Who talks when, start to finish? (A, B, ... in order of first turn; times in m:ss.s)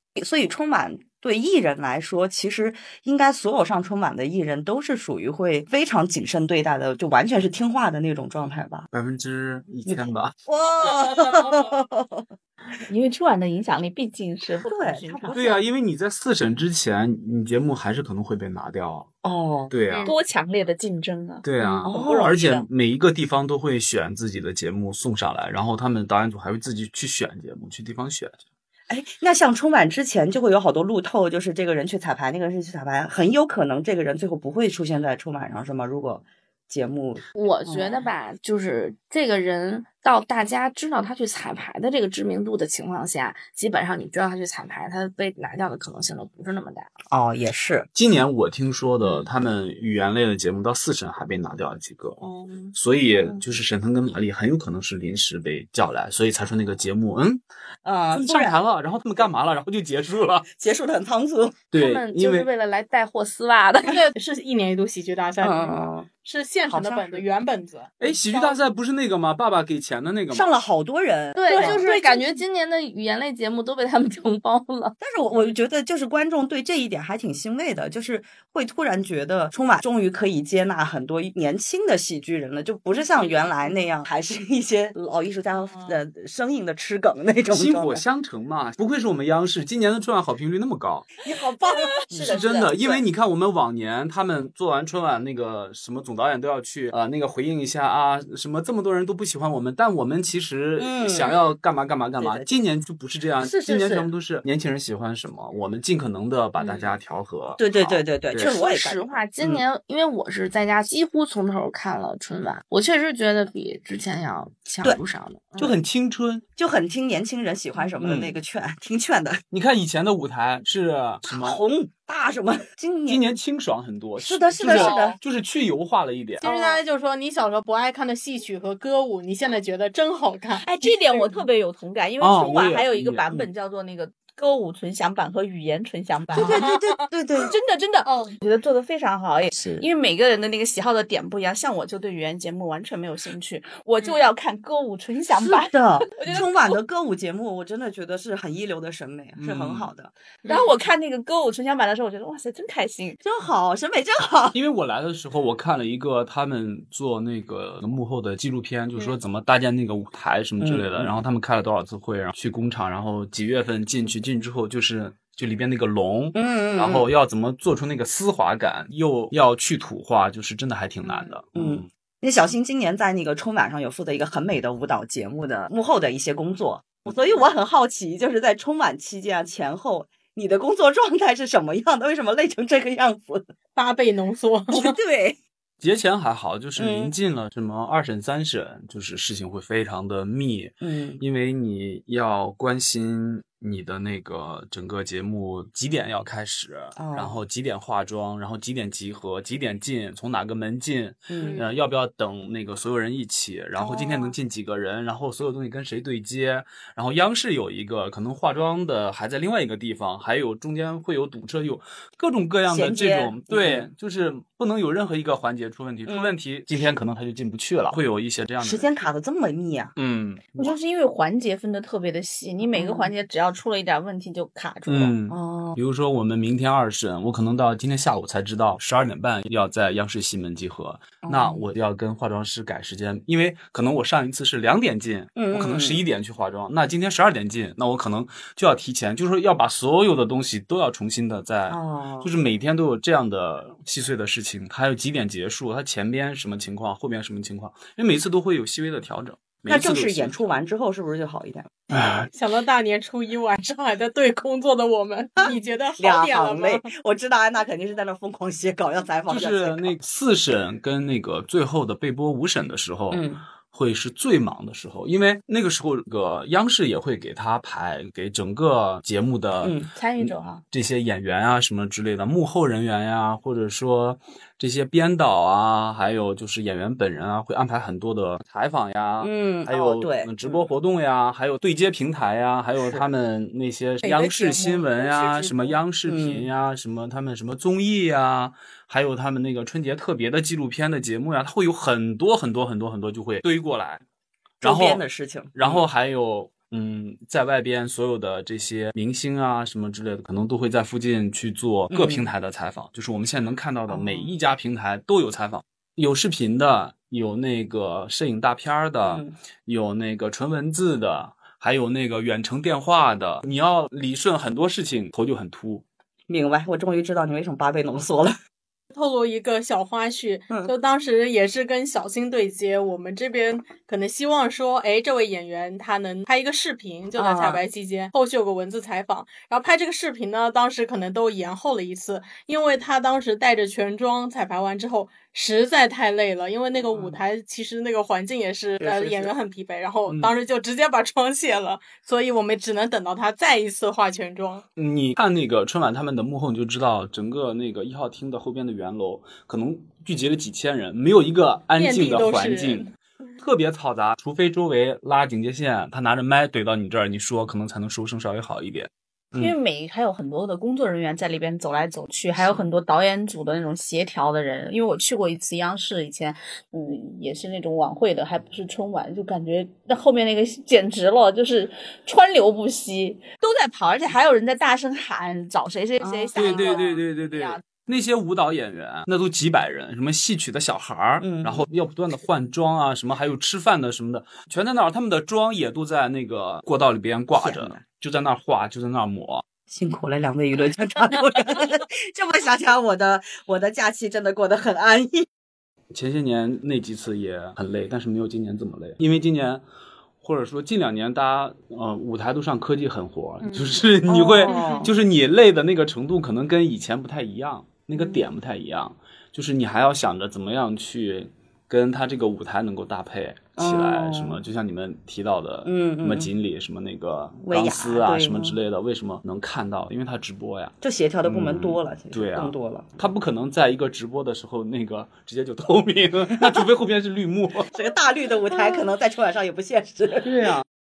0:00.2-0:08.9 A
0:08.9-0:10.3 B
0:09.9-0:12.3 A
0:12.9-0:15.6 C
0:14.6-0:15.4 A
0:15.3-0:19.1 B
0:19.2-0:19.7 A
0:19.7-0:20.1 B
0:20.0-0:22.7 C
0:21.4-0:28.4 B
0:21.8-0:22.3 A
0:28.9-0:38.1 A
0:37.4-0:46.9 D
0:47.1-0:47.9 A
0:48.0-0:52.2 B
0:52.2-0:52.7 D
0:52.8-0:57.4 B
0:57.8-0:58.6 A
0:58.1-1:00.5 B
1:00.6-1:01.6 A
1:01.7-1:02.5 B
1:01.7-1:04.0 D
1:03.9-1:08.6 E
1:05.4-1:06.1 A
1:06.7-1:07.3 A
1:08.0-1:10.5 B
1:10.3-1:12.4 A
1:11.4-1:15.0 D
1:11.5-1:11.9 E
1:15.0-1:28.0 A
1:25.7-1:26.0 E
1:27.5-1:31.1 B
1:31.2-1:33.0 A
1:32.2-1:48.5 B
1:40.8-1:41.4 A
1:42.2-1:42.5 A
1:43.4-1:44.0 A
1:47.6-1:49.6 A
1:48.4-1:55.8 D
1:55.6-1:56.4 B
1:56.6-1:59.4 A
1:58.0-1:58.4 B
1:59.5-2:01.6 B
2:01.2-2:03.2 A
2:03.1-2:06.4 B
2:04.2-2:05.2 A
2:04.7-2:05.2 E
2:06.4-2:11.4 E
2:10.6-2:16.7 C
2:12.2-2:13.5 B
2:16.3-2:17.5 A
2:16.4-2:16.9 E
2:17.4-2:26.5 C
2:18.0-2:18.4 E
2:19.5-2:19.8 A
2:25.4-2:30.1 A
2:29.4-2:29.9 B
2:30.5-2:33.2 C
2:33.2-2:34.6 A
2:34.5-2:51.9 B
2:40.6-2:41.2 A
2:46.4-2:47.1 A
2:51.6-3:03.5 A
3:03.8-3:05.0 E
3:04.7-3:05.4 A
3:05.8-3:38.9 B
3:06.8-3:07.1 A
3:10.8-3:11.2 A
3:17.0-3:17.4 A
3:21.3-3:21.6 A
3:23.8-3:24.4 A
3:32.7-3:33.9 A
3:38.6-3:40.0 A
3:40.0-3:40.7 B
3:40.6-3:45.1 C
3:42.8-3:43.1 A
3:44.9-4:10.4 B
3:45.3-3:45.8 A
3:51.2-3:51.7 A
3:55.4-3:56.0 A
4:01.7-4:02.3 A
4:09.7-4:11.7 A
4:11.9-4:12.3 B
4:12.3-4:16.9 E
4:15.4-4:20.0 A
4:19.3-4:54.0 B
4:23.1-4:23.4 A
4:29.6-4:29.9 A
4:30.0-4:30.6 C
4:39.2-4:40.6 A
4:42.8-4:43.0 A
4:44.0-4:45.8 E
4:46.1-4:46.5 A
4:54.6-4:55.8 A
4:54.6-4:55.0 B
4:55.6-5:15.8 B
5:01.9-5:02.3 A
5:03.9-5:04.3 A
5:09.0-5:09.3 A
5:16.3-5:18.3 A
5:18.9-5:44.6 E
5:27.2-5:27.6 A
5:36.9-5:37.2 A
5:38.8-5:39.3 B
5:40.1-5:40.3 B
5:44.8-5:59.5 B
5:51.8-5:52.9 E
5:59.4-6:17.6 C
6:16.0-6:16.9 A
6:16.4-6:29.4 B
6:21.2-6:21.6 A
6:27.4-6:27.8 A
6:29.7-6:35.3 A
6:35.9-6:39.6 B
6:40.2-7:07.7 B
6:44.1-6:44.9 A
6:47.9-6:48.2 A
6:53.6-6:54.4 A
6:55.6-6:56.3 A
6:57.4-6:58.6 A
7:00.8-7:02.9 A
7:06.4-7:06.6 A
7:07.7-7:10.6 A